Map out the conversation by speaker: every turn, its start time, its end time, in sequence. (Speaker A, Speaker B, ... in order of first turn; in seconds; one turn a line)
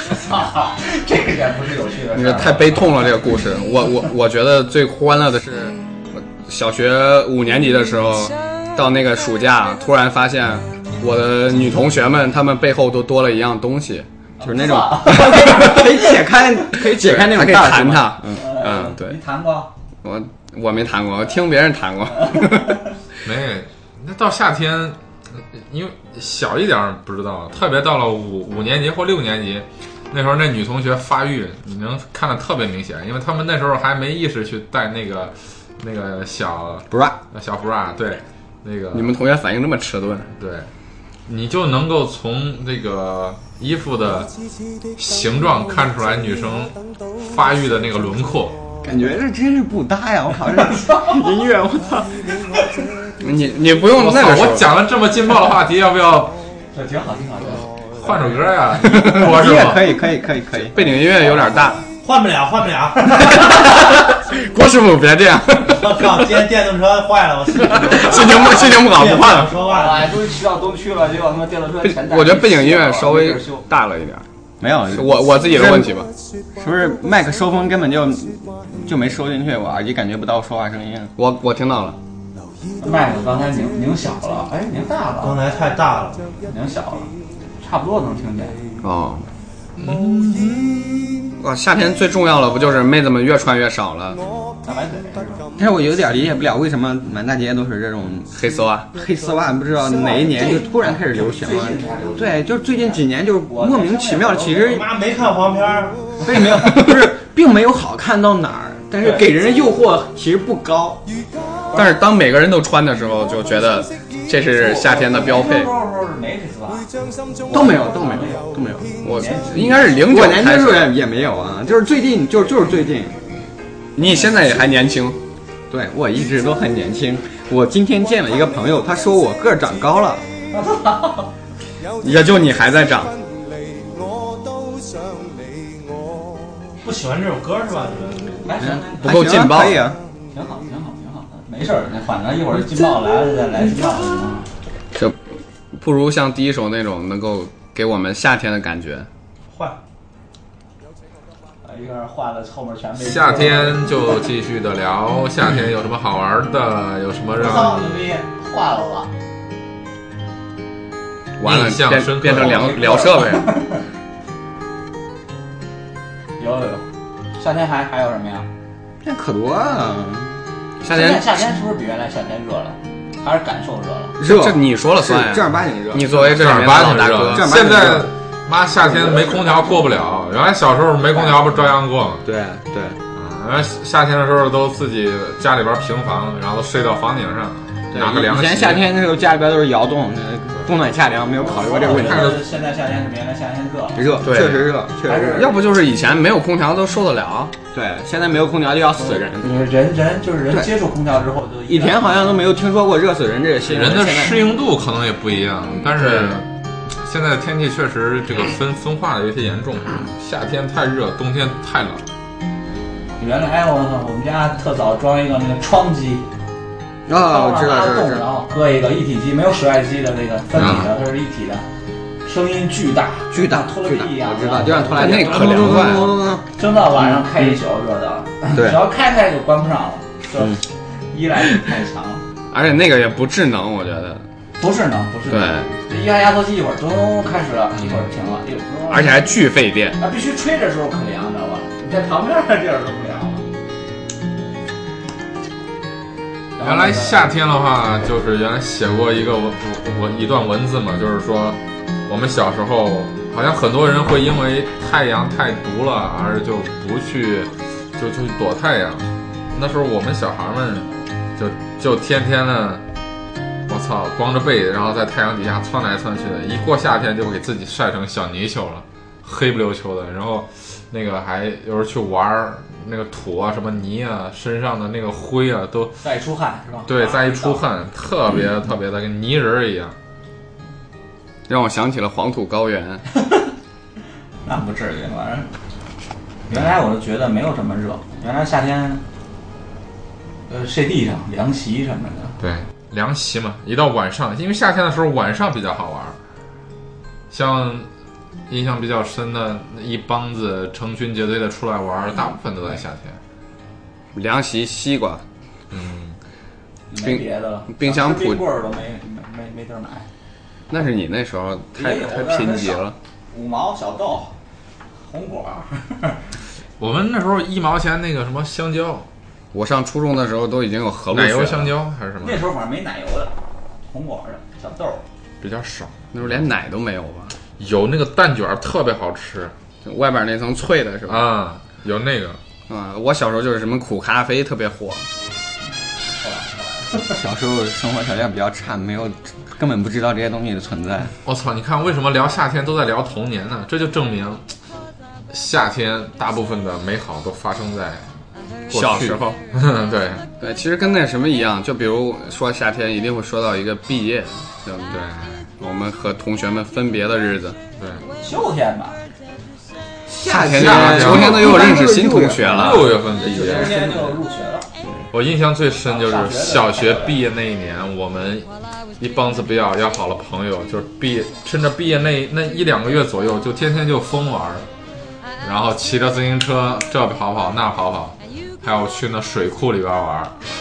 Speaker A: 0.1-2.9
Speaker B: 2.1-16.0
Speaker A: 14.4-15.9
Speaker C: 14.5-19.0
Speaker B: 16.7-19.1
Speaker A: 18.3-19.7
Speaker B: 20.0-22.8
Speaker D: 23.2-39.1
Speaker C: 36.9-37.2
Speaker B: 38.9-40.3
Speaker D: 40.4-40.7
Speaker D: 41.3-44.3
Speaker D: 45.0-48.6
Speaker C: 48.8-52.5
Speaker A: 50.7-51.2
Speaker B: 53.2-54.7
Speaker D: 53.9-56.4
Speaker A: 56.7-57.7
Speaker D: 58.0-60.0
Speaker C: 58.8-61.0
Speaker A: 58.8-59.8
Speaker B: 60.7-61.9
Speaker E: 61.9-63.3
Speaker A: 63.1-63.5
Speaker B: 63.2-66.3
Speaker E: 65.6-70.1
Speaker B: 67.7-69.5
Speaker C: 68.1-68.8
Speaker A: 69.6-73.7
Speaker B: 71.8-74.3
Speaker C: 74.6-76.0
Speaker B: 74.9-76.1
Speaker C: 76.6-81.1
Speaker B: 81.2-82.0
Speaker A: 82.8-85.4
Speaker E: 85.2-86.3
Speaker A: 86.5-88.6
Speaker B: 88.8-89.3
Speaker D: 89.8-91.3
Speaker B: 91.4-94.2
Speaker A: 94.6-95.5
Speaker C: 95.6-98.3
Speaker B: 98.3-98.9
Speaker C: 98.9-104.9
Speaker A: 99.9-104.8
Speaker E: 104.6-106.0
Speaker C: 106.2-111.0
Speaker A: 109.0-109.3
Speaker A: 111.7-112.0
Speaker B: 111.7-115.7
Speaker A: 114.6-116.9
Speaker A: 117.5-120.1
Speaker C: 117.5-118.9
Speaker B: 119.0-120.9
Speaker C: 119.6-123.2
Speaker B: 124.0-125.2
Speaker C: 125.7-130.2
Speaker A: 130.5-131.3
Speaker B: 132.0-133.2
Speaker E: 136.8-138.4
Speaker A: 138.4-139.3
Speaker C: 138.6-140.0
Speaker B: 139.0-140.0
Speaker A: 140.3-144.5
Speaker B: 145.7-149.1
Speaker E: 149.5-149.8
Speaker A: 151.6-154.0
Speaker D: 153.0-157.9
Speaker A: 157.3-159.1
Speaker B: 161.4-163.6
Speaker D: 161.4-162.9
Speaker A: 162.4-163.8
Speaker A: 166.4-166.9
Speaker A: 167.4-168.5
Speaker C: 169.0-170.4
Speaker B: 170.8-171.3
Speaker A: 170.9-174.2
Speaker C: 174.2-178.1
Speaker B: 174.2-177.5
Speaker D: 176.2-182.2
Speaker C: 178.9-179.4
Speaker C: 182.2-183.0
Speaker D: 183.1-188.9
Speaker C: 187.9-192.4
Speaker A: 191.4-194.1
Speaker D: 191.9-192.4
Speaker C: 193.9-195.5
Speaker B: 194.2-194.7
Speaker A: 195.0-195.6
Speaker B: 195.3-197.6
Speaker C: 197.7-199.5
Speaker A: 199.4-202.1
Speaker C: 201.7-204.5
Speaker D: 203.7-212.0
Speaker C: 205.9-206.4
Speaker A: 213.2-216.2
Speaker C: 217.1-218.2
Speaker A: 217.1-221.7
Speaker C: 220.6-220.9
Speaker A: 222.2-226.0
Speaker C: 223.3-226.5
Speaker B: 224.9-226.1
Speaker A: 226.6-232.2
Speaker C: 228.5-228.8
Speaker B: 232.5-234.2
Speaker A: 234.6-239.3
Speaker B: 235.3-235.7
Speaker B: 238.9-240.0
Speaker A: 240.0-243.4
Speaker A: 246.6-247.2
Speaker D: 246.6-262.8
Speaker D: 263.7-276.0
Speaker A: 276.0-277.6
Speaker D: 276.9-279.9
Speaker B: 281.5-283.1
Speaker A: 283.2-283.5
Speaker A: 284.4-285.5
Speaker A: 286.5-289.0
Speaker A: 290.5-292.4
Speaker D: 292.4-296.2
Speaker D: 297.3-297.9
Speaker D: 298.5-303.2
Speaker B: 304.1-305.2
Speaker D: 305.7-306.2
Speaker A: 306.9-310.1
Speaker B: 307.0-308.4
Speaker B: 310.7-313.0
Speaker A: 311.8-314.3
Speaker A: 315.0-316.2
Speaker D: 316.8-319.1
Speaker B: 319.5-321.7
Speaker D: 321.1-322.4
Speaker A: 322.2-323.3
Speaker A: 323.9-325.0
Speaker D: 325.4-326.4
Speaker B: 326.1-327.3
Speaker D: 327.6-329.5
Speaker B: 329.9-331.3
Speaker D: 331.1-332.4
Speaker B: 332.7-335.1
Speaker A: 336.2-336.9
Speaker C: 337.1-341.1
Speaker D: 341.2-344.4
Speaker D: 345.3-348.1
Speaker D: 348.7-350.3
Speaker B: 348.7-349.2
Speaker B: 350.4-355.0
Speaker D: 354.9-355.5
Speaker B: 355.6-357.6
Speaker D: 357.8-358.0
Speaker A: 358.2-359.0
Speaker C: 360.1-364.1
Speaker B: 360.2-363.3
Speaker D: 360.3-361.8
Speaker D: 362.4-363.8
Speaker A: 363.3-364.7
Speaker D: 365.1-368.5
Speaker A: 365.9-367.2
Speaker D: 369.0-374.7
Speaker D: 375.4-380.3